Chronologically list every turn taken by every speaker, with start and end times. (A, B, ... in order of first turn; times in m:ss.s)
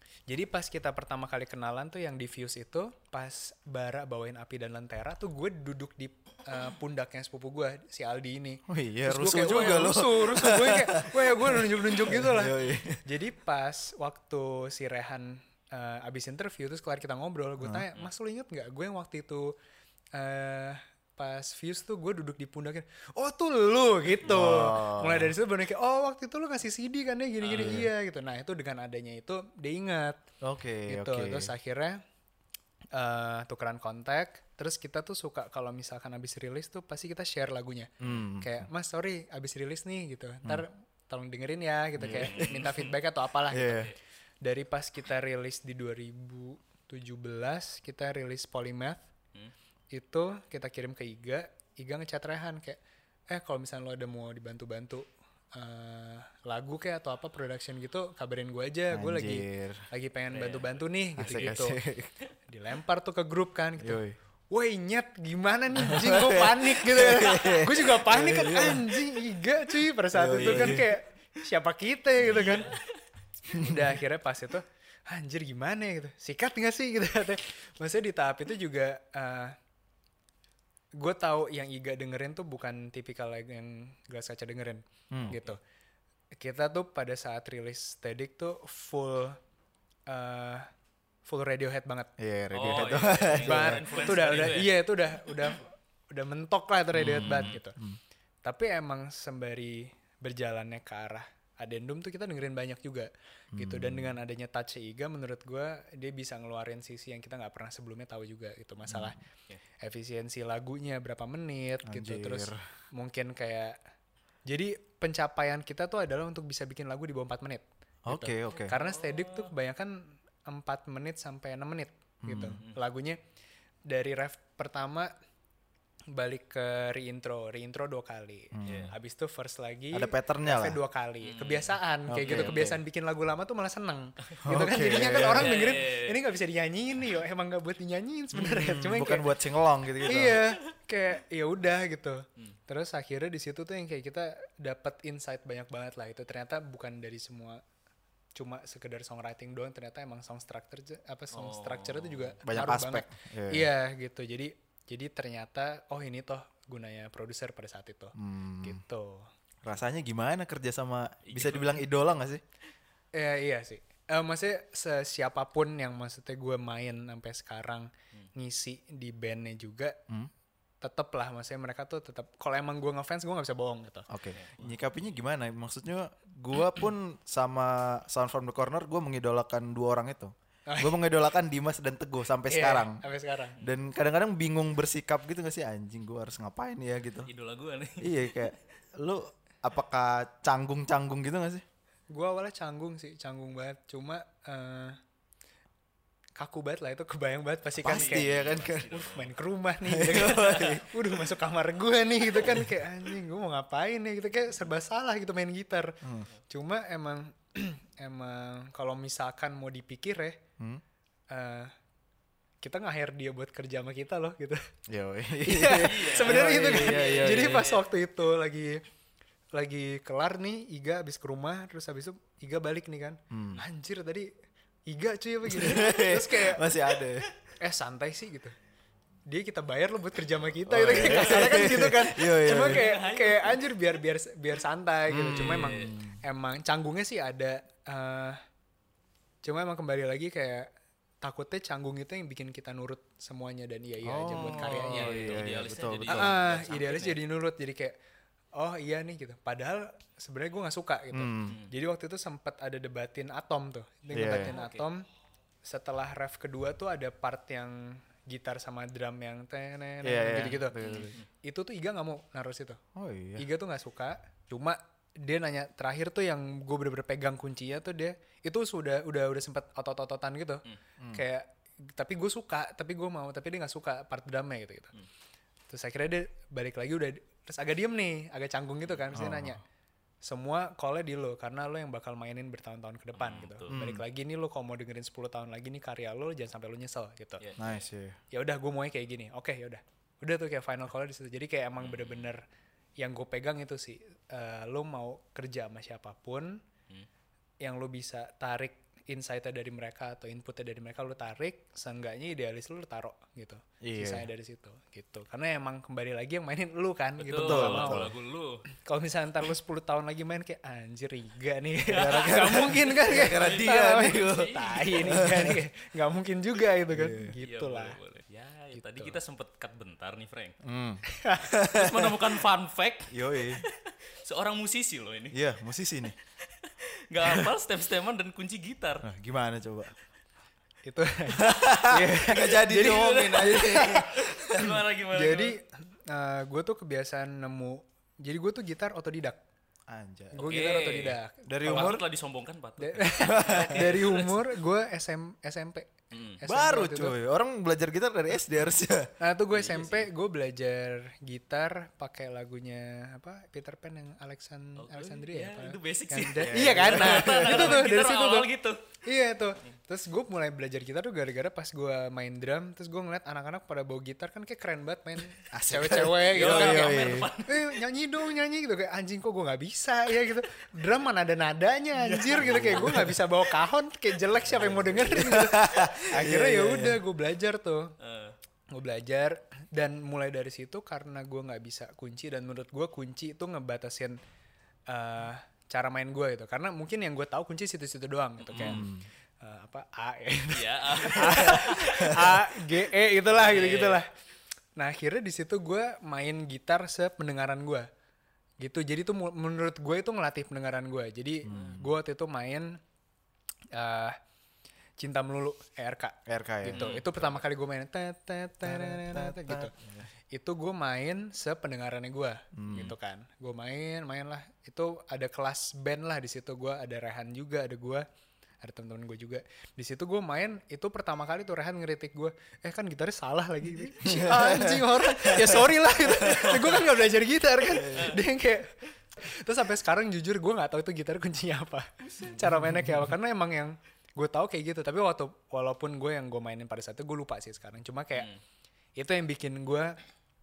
0:00.3-0:19.5 A
0:08.7-0:13.0 B
0:17.6-0:17.8 B
0:20.1-0:30.2 A
0:24.2-0:25.3 B
0:27.5-0:27.9 B
0:30.4-0:31.5 B
0:30.9-0:32.0 A
0:32.9-0:49.1 A
0:38.0-0:38.6 B
0:42.0-0:42.7 B
0:42.1-0:42.9 C
0:43.5-0:43.9 B
0:49.9-1:01.8 A
0:58.9-0:59.8 B
1:00.3-1:01.5 C
1:01.2-1:02.1 B
1:02.5-1:12.8 A
1:03.8-1:04.2 B
1:05.8-1:09.0 B
1:10.1-1:10.9 B
1:10.4-1:10.8 C
1:12.2-1:13.0 C
1:13.5-1:14.0 B
1:13.5-1:19.6 A
1:21.0-1:25.6 A
1:25.1-1:25.4 B
1:26.4-1:29.4 A
1:30.1-1:30.7 A
1:31.2-1:32.1 A
1:32.2-1:34.4 B
1:32.5-1:34.8 C
1:33.4-1:37.8 A
1:36.9-1:38.0 B
1:37.1-1:37.5 C
1:38.4-1:49.2 A
1:43.5-1:44.2 B
1:48.9-1:49.2 B
1:49.8-1:53.8 A
1:51.8-1:52.6 B
1:54.5-2:03.2 A
1:58.0-1:58.7 B
1:58.7-1:59.5 C
2:02.2-2:02.6 B
2:03.9-2:05.1 A
2:06.1-2:19.3 A
2:08.5-2:08.9 B
2:08.6-2:08.9 C
2:09.9-2:10.8 B
2:11.2-2:12.7 C
2:12.1-2:12.8 B
2:14.4-2:15.6 B
2:14.8-2:16.2 C
2:18.3-2:20.4 B
2:20.1-2:27.6 A
2:20.2-2:20.4 C
2:28.3-2:39.3 A
2:31.3-2:32.3 C
2:32.4-2:33.7 B
2:38.2-2:38.8 B
2:39.6-2:42.4 B
2:41.3-2:41.8 C
2:43.1-2:50.0 A
2:50.8-2:54.1 A
2:54.1-3:03.0 B
3:00.7-3:01.0 A
3:02.5-3:03.6 A
3:03.6-3:07.3 B
3:07.2-3:08.2 C
3:08.0-3:11.6 B
3:12.1-3:15.0 A
3:16.4-3:30.4 A
3:17.8-3:18.9 B
3:17.8-3:19.4 C
3:19.8-3:21.0 B
3:22.4-3:22.7 B
3:26.0-3:26.3 B
3:31.3-3:31.7 A
3:32.6-3:34.6 A
3:34.9-3:37.7 B
3:35.4-3:38.8 A
3:35.8-3:37.8 C
3:39.5-3:44.3 A
3:43.3-3:43.6 B
3:44.9-3:46.7 A
3:45.4-3:47.3 B
3:47.6-3:48.6 A
3:49.2-3:58.4 A
3:50.6-3:52.8 B
3:52.4-3:54.0 C
3:55.1-3:56.2 B
3:55.3-3:56.0 C
3:59.4-4:00.7 A
4:01.2-4:05.4 A
4:04.0-4:06.4 B
4:04.6-4:07.2 C
4:06.1-4:08.0 A
4:08.5-4:15.0 A
4:11.1-4:11.6 B
4:14.1-4:14.5 B
4:14.3-4:14.9 C
4:15.6-4:20.8 A
4:20.0-4:21.2 B
4:20.8-4:21.2 C
4:21.4-4:22.8 A
4:23.0-4:23.4 B
4:23.4-4:35.0 A
4:35.7-4:39.6 A
4:39.1-4:39.6 B
4:40.2-4:47.4 A
4:43.2-4:43.7 C
4:43.7-4:44.0 B
4:47.4-4:47.8 C
4:47.6-4:48.2 B
4:48.3-4:52.4 A
4:51.8-4:52.3 C
4:53.0-4:56.6 A
4:57.6-5:08.1 A
5:03.8-5:04.3 B
5:07.2-5:08.6 C
5:07.3-5:08.2 B
5:08.7-5:18.0 A
5:11.9-5:14.5 B
5:12.0-5:15.2 C
5:15.0-5:15.6 B
5:16.9-5:17.3 B
5:17.4-5:20.6 C
5:18.7-5:19.2 A
5:20.6-5:22.2 B
5:21.1-5:21.5 A
5:21.7-5:25.4 C
5:23.1-5:23.6 B
5:25.3-5:26.2 B
5:26.6-5:29.1 C
5:29.0-5:29.9 B
5:30.8-5:39.4 A
5:31.4-5:34.1 B
5:32.7-5:35.6 C
5:39.9-5:40.6 B
5:40.3-5:42.0 A
5:40.4-5:44.6 C
5:41.5-5:42.0 B
5:42.8-5:47.2 A
5:43.3-5:43.9 B
5:46.1-5:46.4 C
5:46.4-5:49.1 B
5:49.2-5:58.5 A
5:49.5-5:50.1 C
5:54.8-5:58.8 C
5:56.4-5:57.9 B
5:59.0-6:18.0 A
6:05.5-6:07.3 B
6:06.2-6:07.8 C
6:12.0-6:13.0 C
6:12.4-6:13.1 B
6:14.5-6:17.0 B
6:18.0-6:18.4 C
6:18.7-6:24.2 A
6:24.9-6:28.9 A
6:28.4-6:28.8 C
6:28.6-6:29.1 B
6:29.4-6:34.1 A
6:30.5-6:32.1 C
6:33.4-6:34.0 C
6:34.8-6:37.9 A
6:38.6-6:42.8 A
6:41.4-6:41.9 B
6:43.7-6:44.2 A
6:45.0-6:49.7 A
6:46.2-6:47.0 B
6:46.7-6:47.4 C
6:48.6-6:50.1 B
6:50.3-6:58.1 A
6:52.5-6:52.9 B
6:58.6-7:18.3 A
7:03.9-7:06.8 B
7:07.7-7:08.2 B
7:07.9-7:08.2 C
7:12.4-7:12.9 B
7:19.0-7:20.0 A